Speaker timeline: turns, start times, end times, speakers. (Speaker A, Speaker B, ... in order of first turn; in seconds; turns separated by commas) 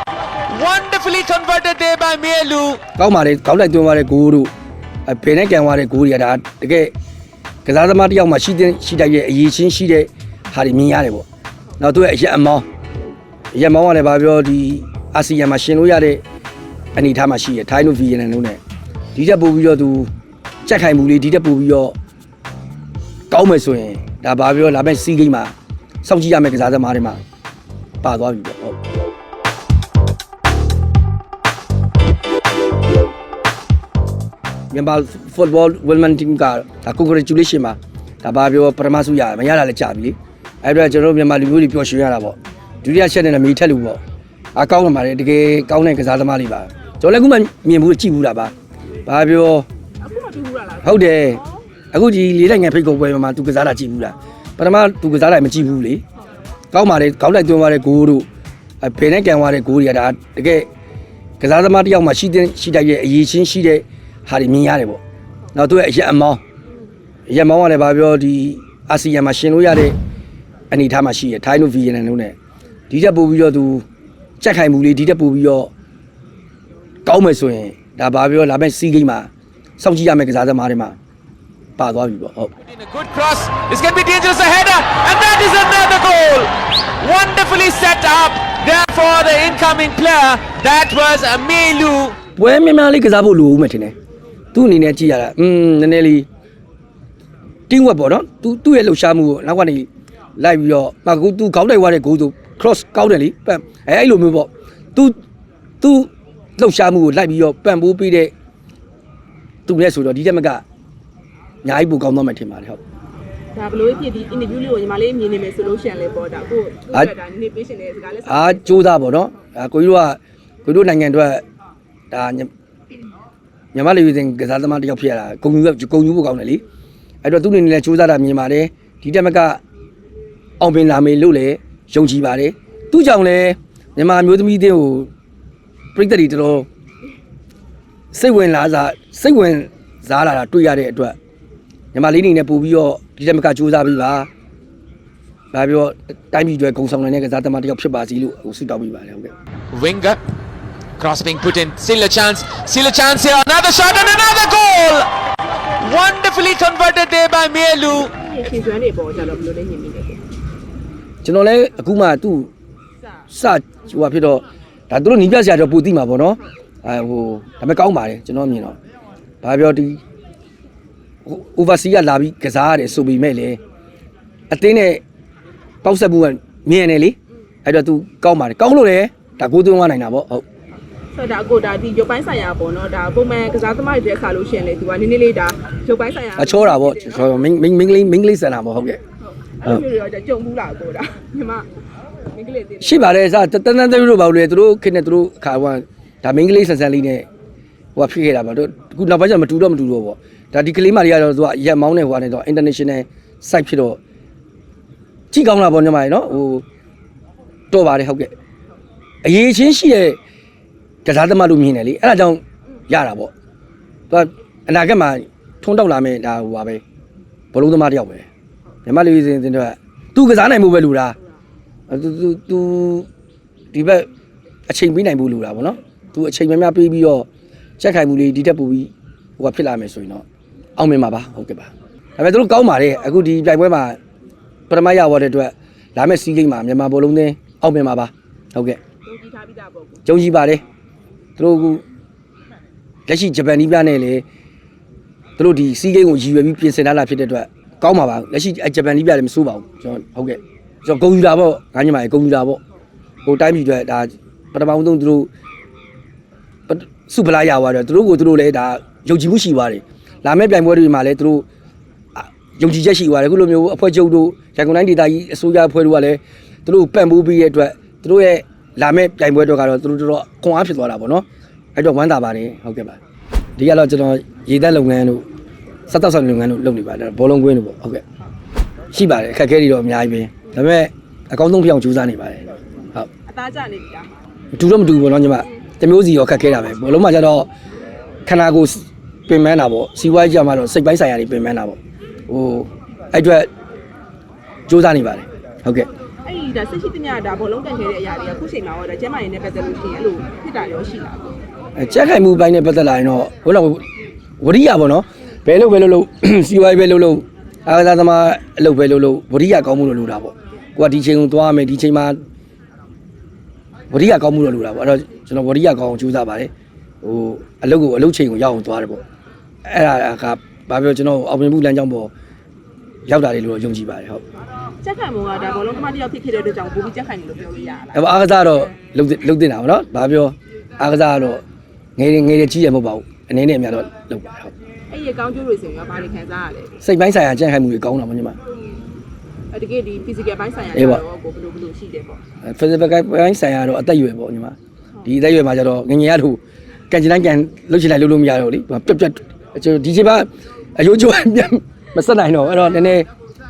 Speaker A: 0.5-2.8, Speaker B: 3.0-4.5, Speaker B: 5.0-6.9, Speaker B: 7.6-11.2, Speaker B: 11.8-12.7, Speaker B: 13.5-16.2, Speaker B: 16.9-18.6, Speaker B: 19.1-20.1, Speaker B: 20.6-21.9, Speaker B: 23.3-27.2, Speaker B: 28.0-28.8, Speaker B: 34.7-44.0, Speaker B: 44.5-48.5, Speaker B: 49.0-49.7, Speaker C: 50.0-51.6, Speaker B: 50.8-51.4, Speaker B: 51.9-56.0, Speaker B: 56.7-58.3, Speaker B: 58.8-60.7, Speaker B: 61.4-65.0, Speaker B: 65.5-66.4, Speaker B: 67.3-70.0, Speaker B: 70.7-72.3, Speaker B: 72.9-73.8, Speaker B: 74.4-75.7, Speaker B: 77.0-81.0, Speaker B: 81.8-82.5, Speaker A: 82.6-92.2, Speaker B: 92.3-93.9, Speaker B: 94.5-96.2, Speaker B: 97.7-105.2, Speaker B: 105.8-108.3, Speaker B: 109.7-110.6, Speaker B: 111.6-112.8, Speaker C: 113.5-119.0, Speaker B: 118.2-121.4, Speaker B: 122.1-122.5, Speaker B: 123.7-126.6, Speaker B: 127.2-129.6, Speaker B: 130.6-135.1, Speaker B: 135.9-136.7, Speaker B: 138.1-141.2, Speaker B: 141.9-144.3, Speaker B: 145.5-149.3, Speaker A: 149.7-150.2, Speaker A: 151.0-155.1, Speaker A: 155.8-158.1, Speaker C: 158.1-160.2, Speaker B: 161.2-162.5, Speaker B: 163.3-168.8, Speaker B: 169.4-170.0, Speaker B: 171.2-173.6, Speaker B: 174.5-175.0, Speaker B: 175.8-180.4, Speaker C: 181.1-187.3, Speaker B: 186.3-189.0, Speaker C: 189.4-191.7, Speaker C: 192.2-193.1, Speaker B: 192.8-197.2, Speaker B: 197.9-204.0, Speaker B: 205.3-206.6, Speaker B: 207.7-208.3, Speaker B: 209.2-210.2, Speaker B: 211.0-213.3, Speaker B: 214.1-216.8, Speaker B: 217.5-218.3, Speaker B: 218.8-221.2, Speaker B: 221.9-223.1, Speaker B: 223.7-224.1, Speaker B: 224.7-227.3, Speaker B: 227.8-230.2, Speaker B: 230.8-234.0, Speaker B: 234.7-238.8, Speaker C: 239.0-240.0, Speaker B: 240.1-240.6, Speaker B: 241.4-241.8, Speaker B: 243.1-244.2, Speaker B: 245.4-252.6, Speaker B: 253.2-255.3, Speaker B: 256.7-261.4, Speaker B: 262.1-273.0, Speaker B: 273.6-275.2, Speaker B: 275.9-278.0, Speaker B: 278.9-283.1, Speaker C: 283.2-284.1, Speaker B: 284.5-287.5, Speaker B: 288.2-293.5, Speaker B: 294.7-295.9, Speaker C: 296.2-301.4, Speaker B: 301.8-303.8, Speaker B: 304.4-312.2, Speaker B: 313.9-316.5, Speaker B: 317.0-319.0, Speaker B: 319.6-322.1, Speaker B: 323.1-324.2, Speaker C: 324.8-328.1, Speaker B: 327.9-331.4, Speaker B: 331.9-334.5, Speaker C: 334.9-336.8, Speaker B: 336.8-338.4, Speaker C: 339.5-342.2, Speaker B: 340.7-341.0, Speaker B: 342.4-353.1